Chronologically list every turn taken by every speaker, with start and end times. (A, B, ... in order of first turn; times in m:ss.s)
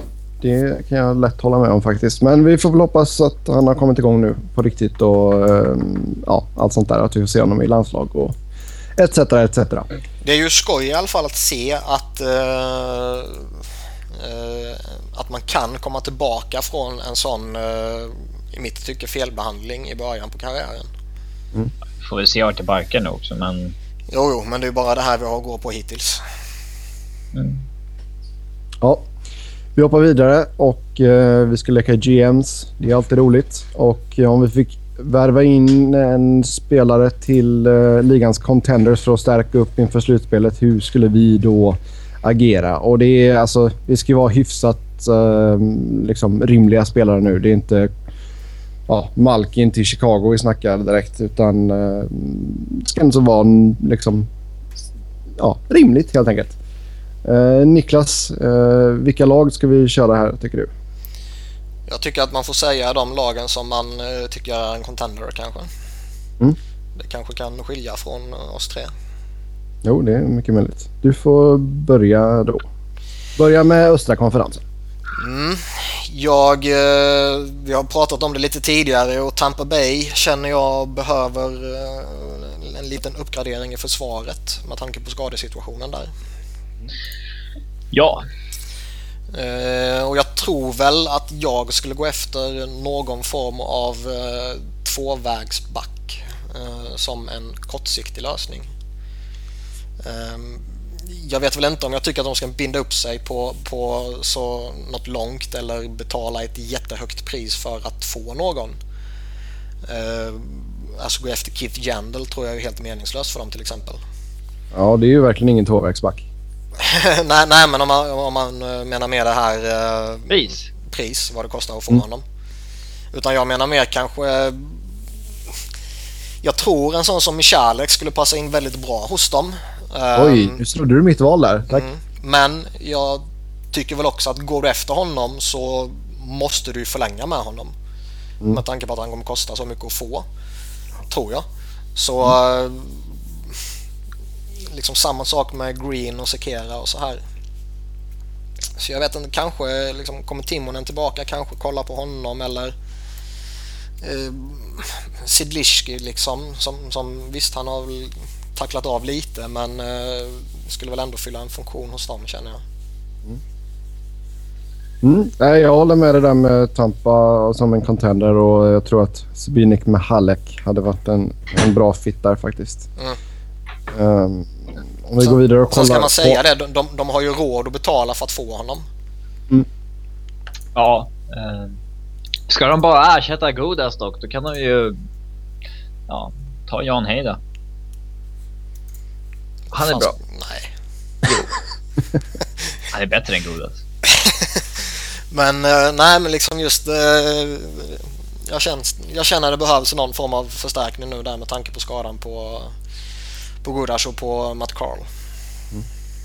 0:00.4-0:08.3 A
0:09.0-0:09.8 A
0:10.2-0:13.6 B
0:14.1-0:20.9 B
0:22.0-0:23.7 C
0:24.1-0:26.2 B
0:27.3-0:27.6 C
0:28.8-0:29.1 A
0:29.8-0:47.9 A
0:48.9-0:54.3 A
0:55.4-0:56.5 A
0:57.2-1:00.7 A
1:01.9-1:05.7 B
1:06.9-1:08.9 B
1:09.8-1:12.6 A
1:13.4-1:14.6 A
1:15.2-1:26.1 B
1:27.9-1:28.2 C
1:29.3-1:38.7 B
1:40.0-1:48.8 B
1:49.8-1:54.0 B
1:54.7-1:56.2 A
1:56.8-2:02.2 B
2:00.3-2:00.7 C
2:03.1-2:04.8 B
2:06.4-2:10.6 B
2:10.1-2:11.8 A
2:11.7-2:17.7 B
2:18.5-2:20.2 B
2:21.1-2:23.5 B
2:24.6-2:27.2 B
2:28.8-2:32.7 B
2:34.0-2:42.6 B
2:45.0-2:52.9 A
2:53.9-2:56.4 A
2:55.2-2:58.8 B
3:00.7-3:01.8 C
3:02.5-3:05.0 C
3:06.1-3:07.4 C
3:09.7-3:10.1 C
3:09.8-3:10.7 B
3:12.9-3:13.8 C
3:14.0-3:22.7 B
3:23.6-3:25.1 B